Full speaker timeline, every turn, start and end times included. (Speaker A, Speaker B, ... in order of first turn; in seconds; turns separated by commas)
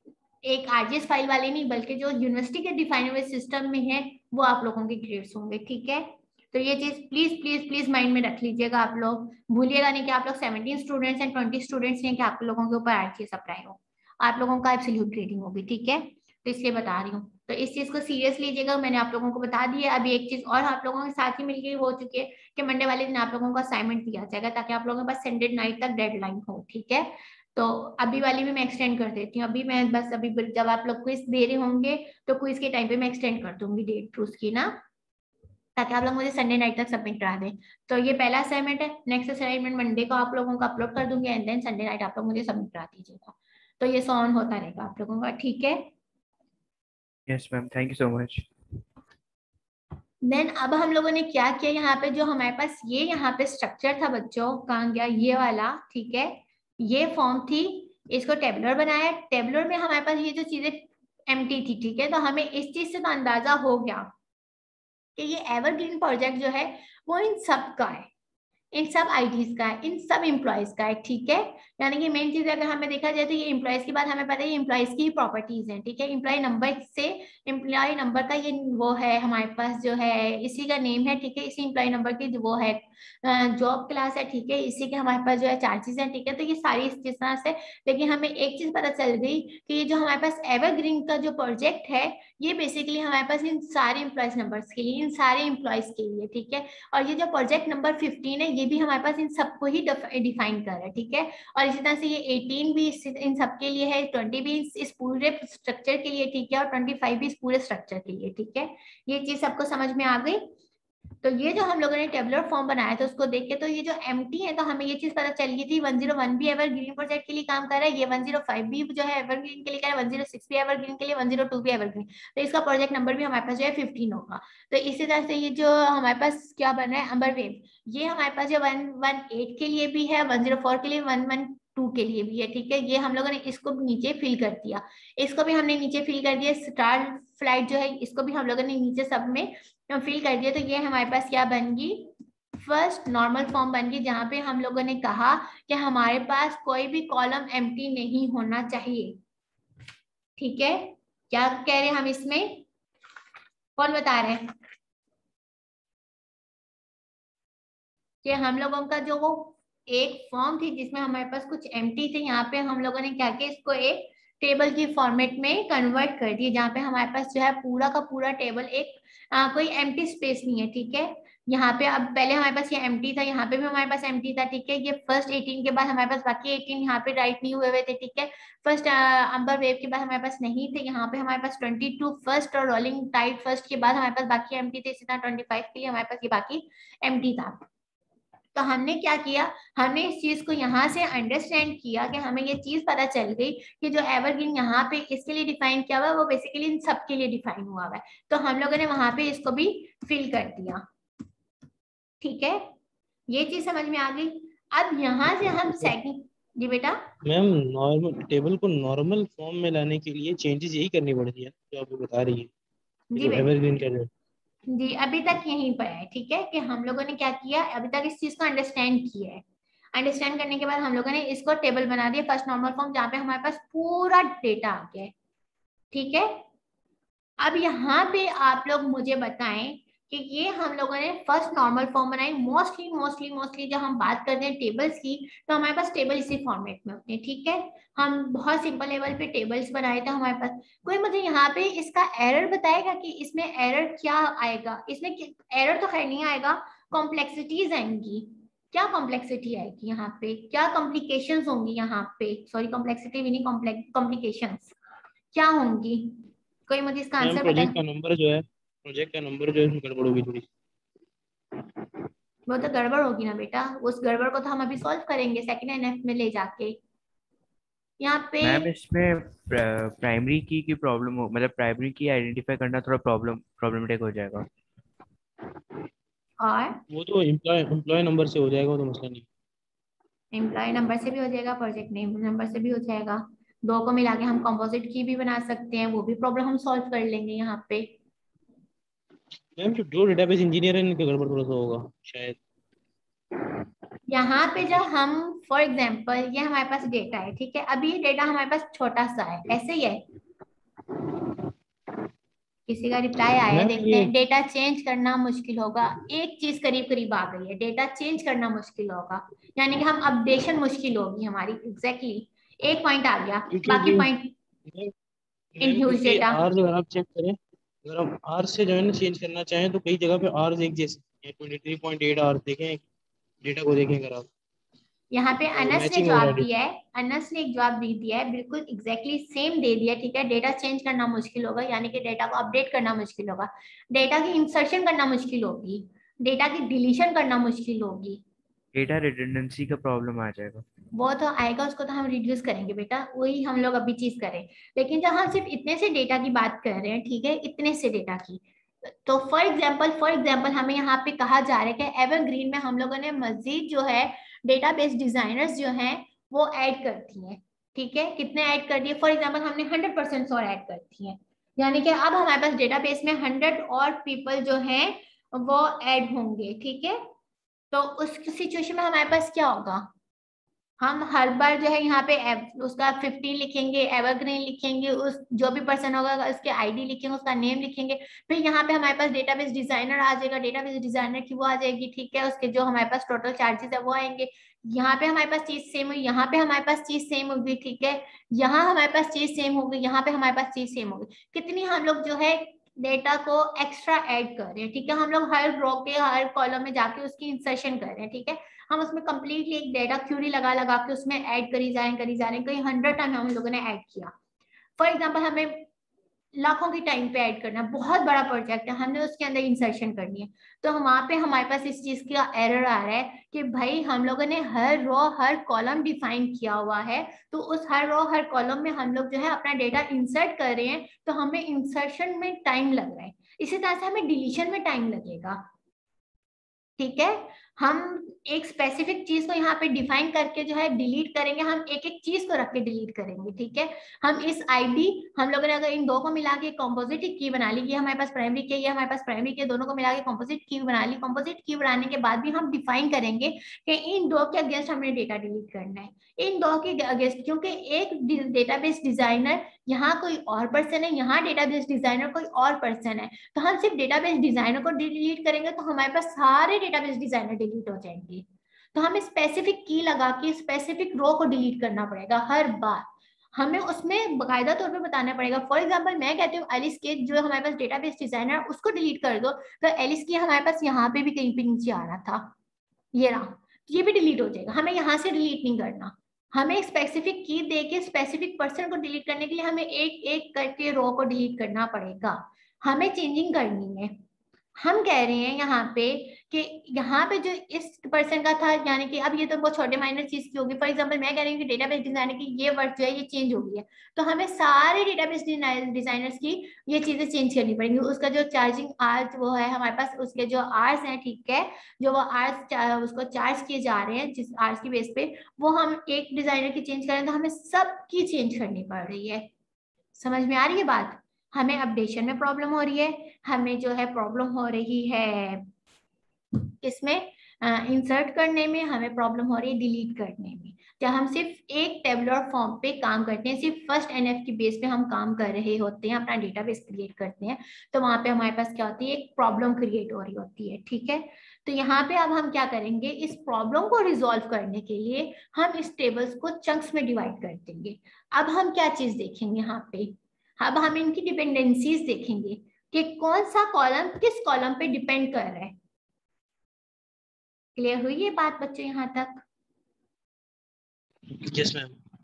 Speaker A: 0.5-34.8, Speaker A: 35.8-45.9, Speaker B: 47.3-48.5, Speaker A: 50.3-64.1, Speaker A: 65.2-68.1, Speaker A: 68.7-110.4, Speaker A: 111.2-149.2, Speaker A: 150.4-152.7, Speaker A: 153.8-154.5, Speaker A: 158.2-187.7, Speaker A: 188.6-200.8, Speaker A: 202.2-202.7, Speaker A: 203.3-207.0, Speaker C: 207.2-212.5, Speaker A: 213.1-213.5, Speaker C: 213.2-214.1, Speaker A: 214.7-219.4, Speaker A: 219.9-225.1, Speaker A: 225.9-226.4, Speaker A: 227.4-254.7, Speaker A: 255.3-257.8, Speaker C: 257.2-260.5, Speaker A: 262.5-266.8, Speaker A: 268.0-268.7, Speaker B: 268.4-274.5, Speaker A: 276.4-276.8, Speaker C: 276.9-279.3, Speaker A: 280.3-287.9, Speaker C: 289.6-292.4, Speaker A: 294.1-300.0, Speaker A: 302.7-314.3, Speaker C: 303.5-304.1, Speaker C: 313.5-314.1, Speaker C: 314.7-314.9, Speaker C: 315.6-322.8, Speaker A: 315.6-316.4, Speaker C: 323.4-324.3, Speaker A: 325.1-338.2, Speaker C: 325.6-326.5, Speaker B: 338.7-340.6, Speaker A: 340.9-367.0, Speaker A: 367.7-369.9, Speaker A: 370.8-404.1, Speaker A: 404.8-405.7, Speaker A: 406.4-425.4, Speaker A: 426.8-472.3, Speaker A: 472.9-483.9, Speaker A: 484.6-509.3, Speaker A: 509.9-515.5, Speaker A: 516.6-545.6, Speaker A: 547.6-549.2, Speaker C: 551.2-551.7